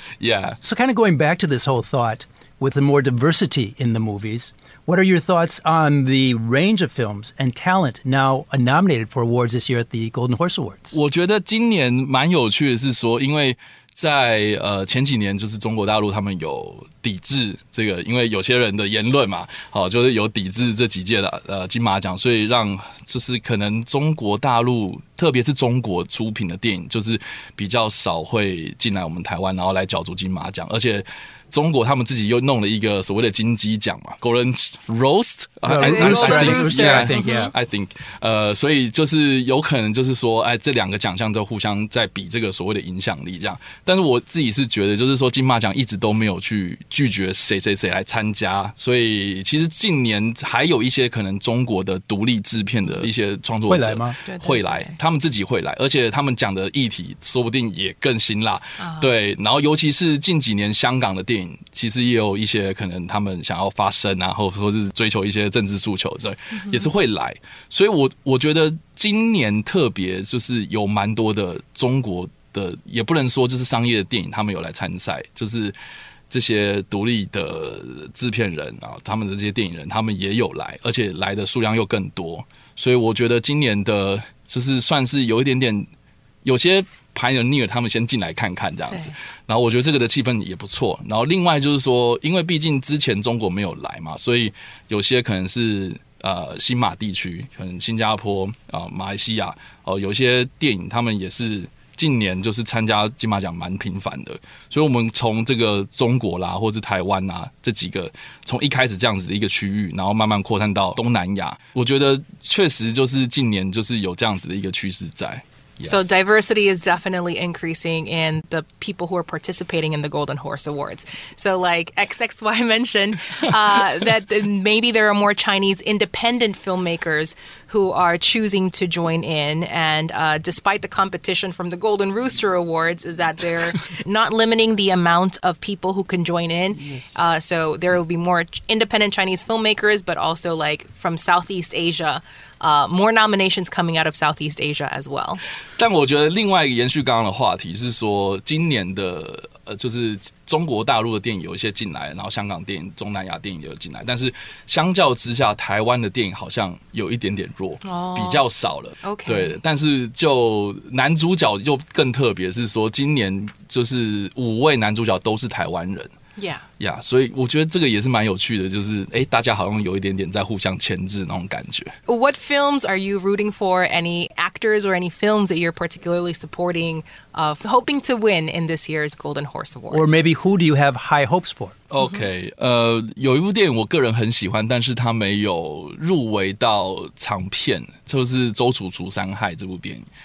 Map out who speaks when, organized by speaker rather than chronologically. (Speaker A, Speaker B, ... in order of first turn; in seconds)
Speaker A: 0.2-0.6, 10.9-75.7, 76.3-85.9, 86.4-116.2, 136.8-137.4, 145.8-166.1, 166.8-171.9, 181.9-190.1
Speaker B: 0.6-10.9, 35.6-37.5, 53.7-54.2, 179.9-181.7
Speaker C: 35.8-37.5, 54.2-54.9, 58.8-59.1, 66.5-66.9, 115.8-145.4, 157.8-158.4, 159.0-159.6, 166.4-166.6, 172.1-180.1